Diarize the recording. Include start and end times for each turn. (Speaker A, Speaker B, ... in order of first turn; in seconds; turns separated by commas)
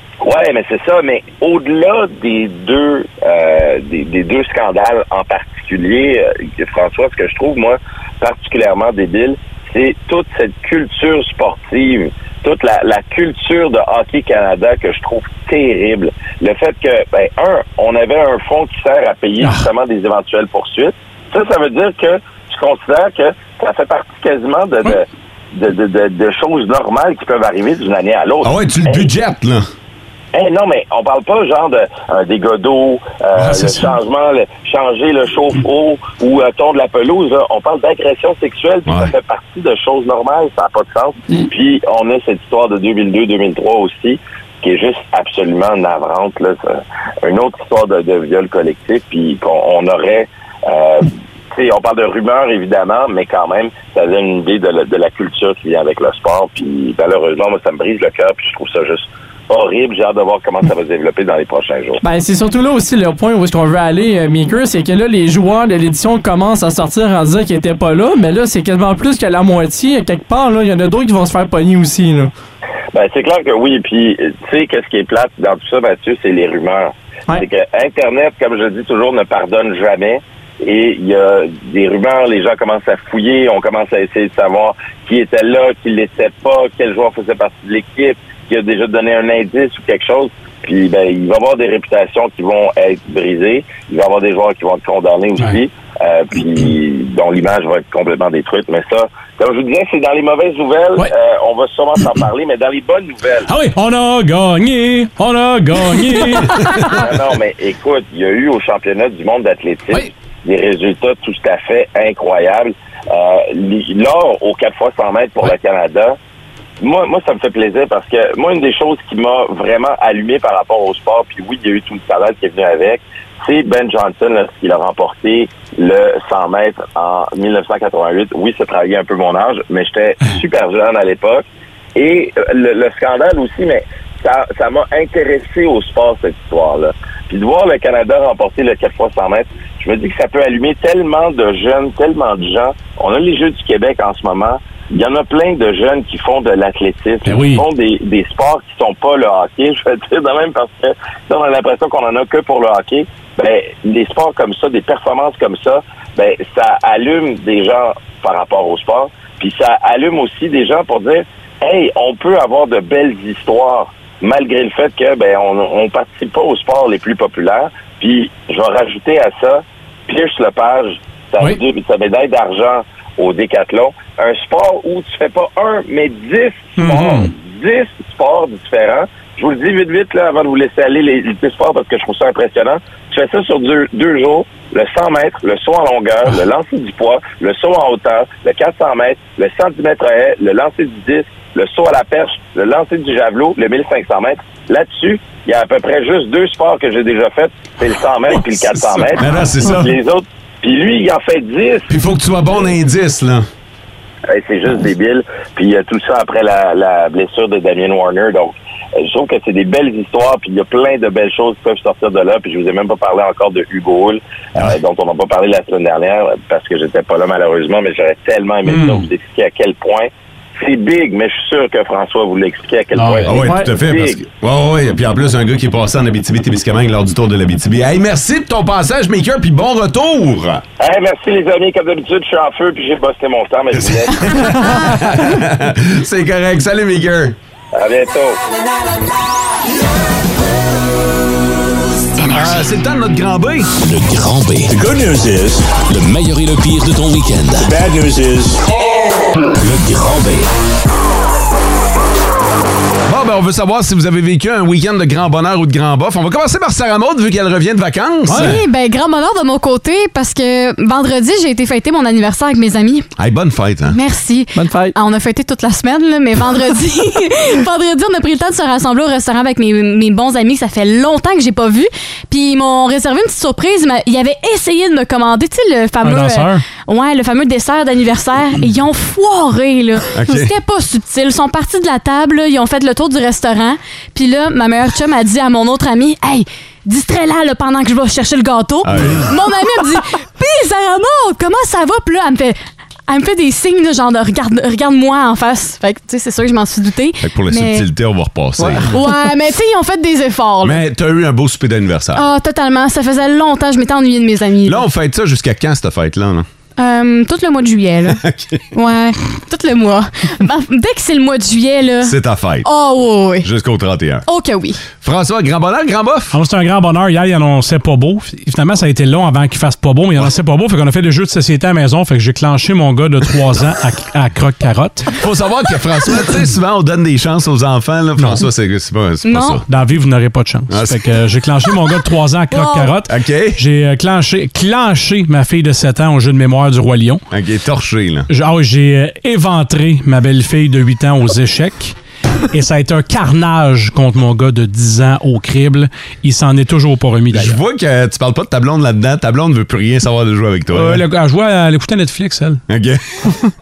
Speaker A: 0.2-29.1, Speaker B: 19.4-19.6, Speaker C: 28.4-29.6, Speaker A: 30.3-62.0, Speaker B: 33.4-33.9, Speaker C: 38.9-39.1, Speaker D: 62.0-72.3, Speaker A: 72.9-103.5, Speaker B: 103.5-107.0, Speaker A: 106.8-116.2, Speaker A: 116.8-201.9, Speaker B: 147.2-147.6, Speaker B: 176.8-177.3, Speaker C: 199.1-199.9, Speaker C: 201.9-203.4, Speaker A: 204.3-224.2, Speaker B: 218.7-219.1, Speaker B: 222.9-223.4, Speaker C: 223.2-230.6, Speaker A: 230.8-234.5, Speaker C: 233.7-237.4, Speaker A: 237.7-238.4, Speaker C: 242.3-243.7, Speaker E: 243.8-244.7, Speaker F: 244.7-245.8, Speaker E: 245.7-247.7, Speaker F: 247.6-248.6, Speaker E: 249.6-250.5, Speaker C: 253.1-258.6, Speaker G: 258.3-263.1, Speaker B: 258.3-258.6, Speaker C: 263.2-264.0, Speaker G: 263.9-292.6, Speaker D: 264.5-264.9, Speaker B: 276.0-276.6, Speaker C: 280.1-280.5, Speaker C: 288.8-289.3, Speaker G: 293.1-297.8, Speaker C: 297.2-298.9, Speaker G: 298.9-300.8, Speaker C: 300.6-302.2, Speaker G: 302.1-304.8, Speaker C: 304.6-306.4, Speaker G: 306.8-313.5, Speaker C: 308.1-308.6, Speaker C: 312.0-312.7, Speaker C: 313.4-314.2, Speaker G: 314.3-314.8, Speaker C: 315.0-316.4, Speaker B: 316.3-325.1, Speaker C: 325.1-329.6, Speaker G: 329.2-329.6, Speaker B: 329.6-337.2, Speaker C: 330.7-331.0, Speaker G: 332.5-332.9, Speaker C: 333.1-333.6, Speaker C: 337.3-338.3, Speaker B: 338.3-341.9, Speaker B: 342.5-347.6, Speaker C: 347.3-351.0, Speaker B: 350.7-352.6, Speaker C: 352.7-353.2